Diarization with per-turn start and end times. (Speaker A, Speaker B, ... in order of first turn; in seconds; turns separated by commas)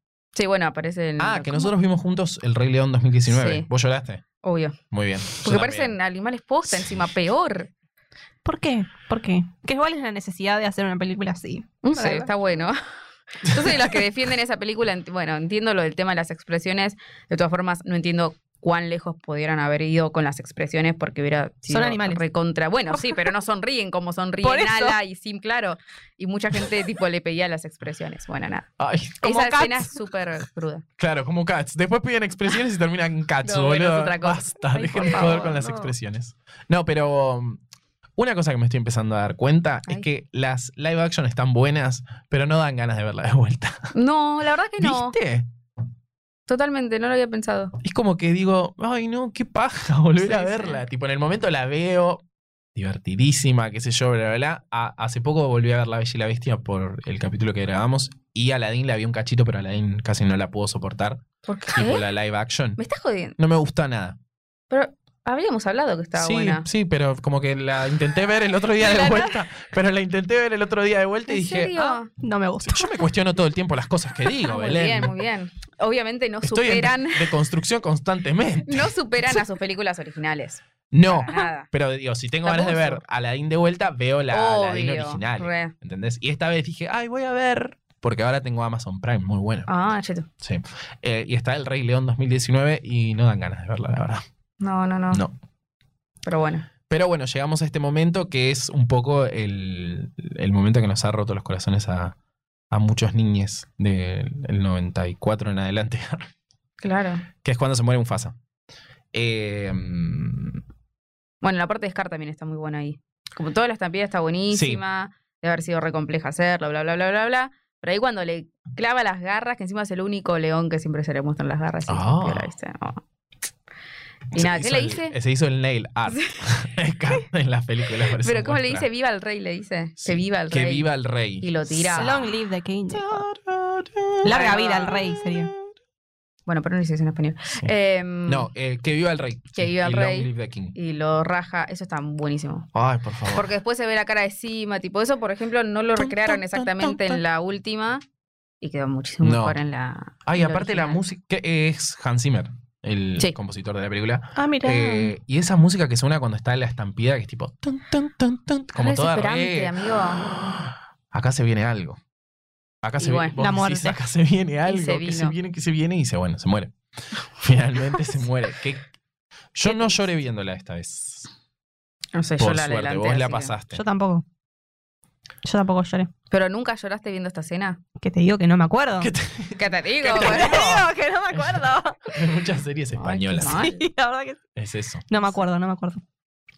Speaker A: 0.3-1.7, Speaker B: 1.2-4.2, Speaker A: 3.3-3.7, Speaker A: 4.4-4.8, Speaker B: 4.9-5.9, Speaker A: 5.3-7.7, Speaker C: 8.4-12.3, Speaker A: 11.8-12.8, Speaker A: 13.4-28.7, Speaker C: 21.7-22.2, Speaker C: 22.9-23.2, Speaker C: 24.4-25.0, Speaker B: 28.8-29.3, Speaker A: 29.2-30.8, Speaker C: 29.2-29.9, Speaker B: 31.0-37.6, Speaker A: 33.4-35.5, Speaker C: 34.9-35.9, Speaker B: 38.2-43.9, Speaker A: 43.9-45.1, Speaker B: 44.8-45.5, Speaker A: 46.5-47.7, Speaker B: 47.8-52.2, Speaker A: 50.2-50.8, Speaker B: 52.7-62.8, Speaker A: 61.4-62.0, Speaker A: 62.8-63.4, Speaker B: 63.4-64.2, Speaker A: 64.7-66.6, Speaker B: 66.1-72.0, Speaker A: 68.8-69.4, Speaker A: 71.3-72.1, Speaker C: 72.2-72.9, Speaker B: 72.6-75.2, Speaker A: 74.3-77.4, Speaker B: 76.4-78.9, Speaker A: 78.7-81.7, Speaker B: 80.9-89.7, Speaker A: 82.4-83.0, Speaker A: 84.3-85.7, Speaker A: 89.7-90.3, Speaker B: 90.4-94.2, Speaker A: 94.6-95.2, Speaker A: 96.2-96.7, Speaker B: 96.9-102.1, Speaker B: 102.7-106.3, Speaker A: 106.8-107.3, Speaker B: 107.4-108.3, Speaker B: 109.1-110.6, Speaker A: 111.4-123.0, Speaker B: 114.5-114.8, Speaker B: 121.9-122.5, Speaker A: 124.3-125.1, Speaker B: 124.3-128.9, Speaker A: 128.2-130.9, Speaker B: 130.0-132.2, Speaker A: 131.4-132.3, Speaker C: 131.9-133.2, Speaker B: 132.9-134.3, Speaker C: 134.2-135.5, Speaker A: 134.2-135.0, Speaker A: 136.5-138.5, Speaker B: 138.2-140.7, Speaker A: 139.6-142.7, Speaker B: 142.7-143.5, Speaker A: 143.3-148.0, Speaker B: 145.9-147.2, Speaker A: 148.6-151.0, Speaker B: 149.2-149.6, Speaker B: 150.2-162.0, Speaker C: 154.3-155.1, Speaker A: 158.8-160.3, Speaker B: 162.8-168.9, Speaker A: 163.0-163.3, Speaker C: 163.4-164.0, Speaker A: 164.7-165.3, Speaker B: 169.5-171.3, Speaker A: 169.7-169.9, Speaker A: 172.1-173.5, Speaker B: 172.4-173.8, Speaker C: 173.7-174.2, Speaker C: 175.4-176.1, Speaker A: 176.3-177.8, Speaker C: 178.0-179.1, Speaker B: 179.0-183.7, Speaker A: 179.6-180.6, Speaker C: 180.1-182.0, Speaker A: 182.9-183.8, Speaker C: 183.4-184.4, Speaker B: 184.6-185.1, Speaker C: 185.1-186.0